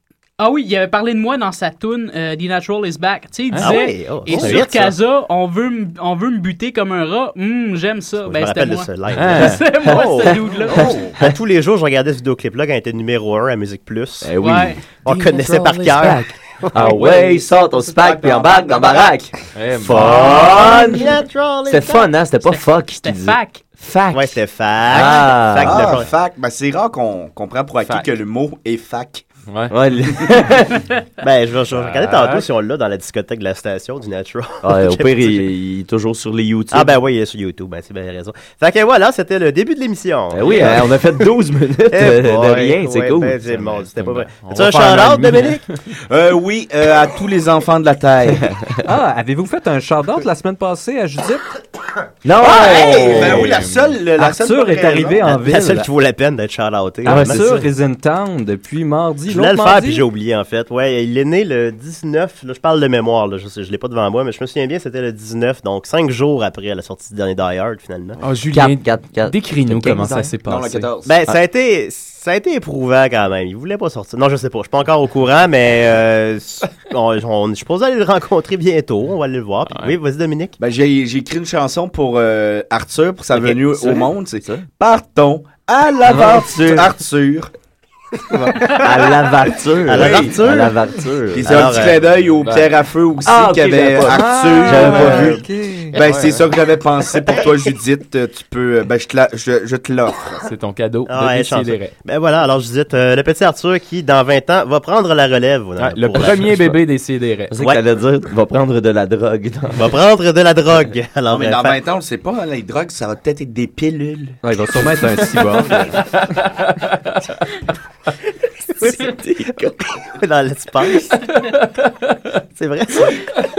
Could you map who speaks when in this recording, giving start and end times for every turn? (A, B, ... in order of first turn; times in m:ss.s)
0:00.4-0:11.0 A
0:03.5-0:03.8 B
0:03.6-0:04.9 C
0:08.2-0:14.3 C
0:09.1-0:09.6 B
0:10.7-0:11.2 D
0:14.2-0:14.8 E
0:14.4-0:14.8 A
0:15.0-0:17.0 C
0:15.5-0:21.1 E
0:17.9-0:19.1 D
0:19.5-0:20.4 B
0:20.0-0:22.1 C
0:21.7-0:24.3 E
0:22.4-0:23.6 A
0:24.1-0:26.1 C
0:24.9-0:26.0 E
0:25.6-0:29.2 D
0:29.7-0:30.8 E
0:31.2-0:35.4 C
0:31.8-0:32.4 B
0:34.6-0:36.9 E
0:36.7-0:41.0 C
0:40.3-0:43.4 E
0:41.9-0:45.6 C
0:43.5-0:45.8 B
0:46.1-0:48.5 D
0:48.8-0:51.4 F
0:52.2-0:53.5 E
0:52.4-0:55.2 D
0:53.2-0:53.9 B
0:54.2-0:55.9 F
0:55.2-0:57.6 C
0:57.0-1:00.0 F
0:57.0-0:57.6 E
0:59.3-1:08.2 C
1:08.2-1:10.9 B
1:08.5-1:10.3 E
1:10.4-1:11.2 D
1:11.0-1:20.6 C
1:19.7-1:20.0 B
1:20.6-1:27.5 D
1:23.4-1:24.6 E
1:26.0-1:26.9 E
1:28.6-1:31.5 E
1:29.9-1:30.8 C
1:30.0-1:30.4 D
1:31.3-1:35.4 D
1:31.4-1:32.0 C
1:32.4-1:32.7 B
1:33.2-1:35.4 E
1:34.1-1:36.0 F
1:35.9-1:40.5 D
1:40.4-1:41.9 B
1:41.1-1:46.6 C
1:45.8-1:47.5 B
1:47.5-1:49.8 E
1:49.7-1:51.8 C
1:51.3-1:54.4 D
1:54.4-1:56.0 F
1:58.8-1:59.8 E
2:00.1-2:01.2 C
2:02.6-2:03.3 C